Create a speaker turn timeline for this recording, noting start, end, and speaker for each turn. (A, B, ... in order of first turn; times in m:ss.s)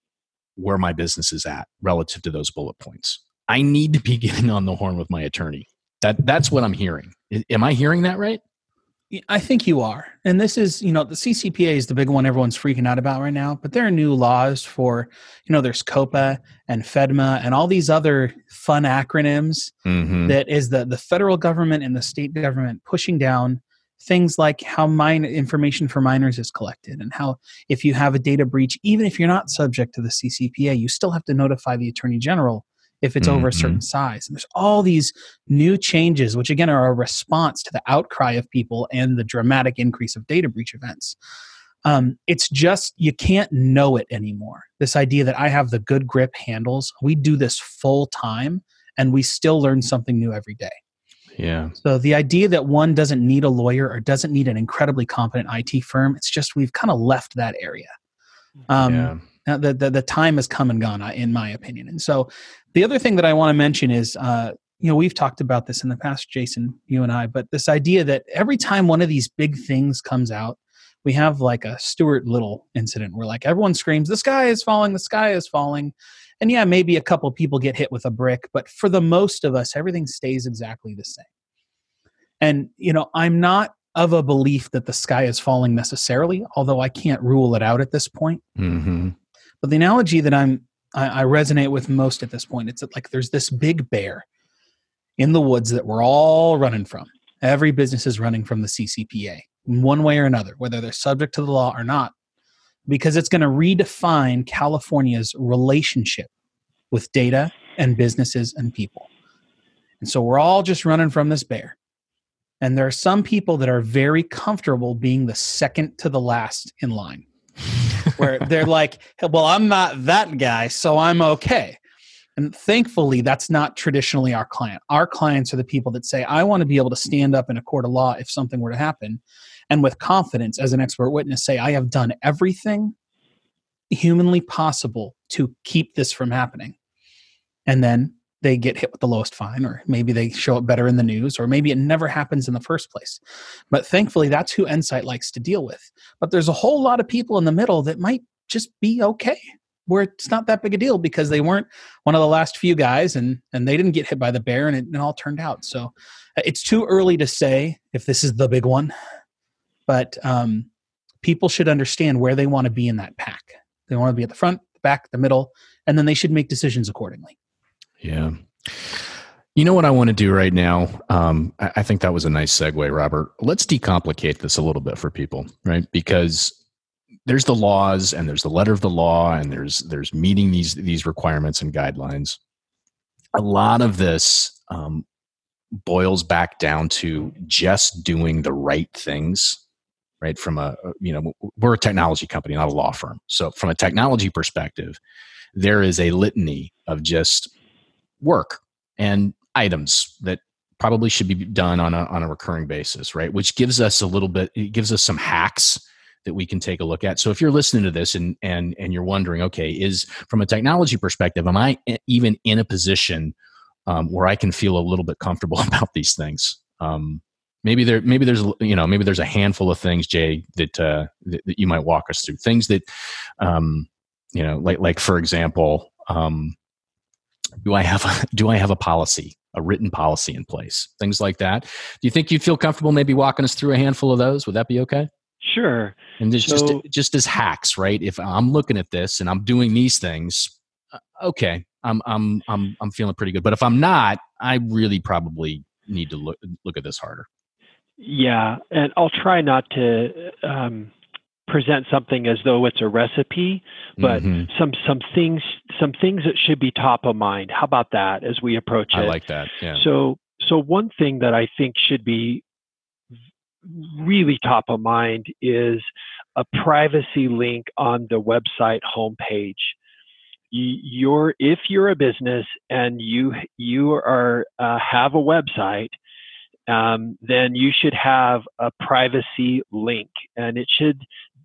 0:00.6-0:08.4 A
0:09.1-0:19.7 B
0:19.8-0:20.3 A
0:20.2-0:41.2 B
0:33.2-0:33.8 A
0:41.8-0:50.8 B
0:51.4-0:51.7 A
0:51.8-0:57.9 B
0:58.7-1:21.3 B
0:58.8-0:59.2 A
1:22.4-1:28.4 B
1:28.6-1:29.1 A
1:29.6-1:34.2 B
1:35.2-1:42.1 B
1:42.9-1:46.3 B
1:46.9-1:49.1 B
1:50.0-1:51.8 B
1:52.6-1:57.2 B
1:58.2-2:01.8 B
2:02.4-2:12.9 B
2:13.9-2:16.7 B
2:17.7-2:38.9 B
2:39.9-2:40.7 B
2:41.2-2:47.3 B
2:48.0-2:49.0 A
2:49.5-2:56.6 A
2:57.2-3:02.4 A
3:03.3-3:05.0 A
3:05.8-3:09.6 A
3:10.2-3:15.0 A
3:15.5-3:17.5 A
3:18.2-3:33.3 A
3:33.9-3:42.8 A
3:43.4-3:46.6 A
3:47.6-3:55.1 A
3:55.4-3:56.8 C
3:56.2-4:00.5 A
4:01.1-4:07.2 A
4:08.0-4:10.9 C
4:11.5-4:19.2 C
4:14.0-4:14.5 A
4:18.9-4:19.8 A
4:19.7-4:22.4 C
4:23.6-4:29.8 C
4:30.5-4:35.9 C
4:36.7-4:41.0 C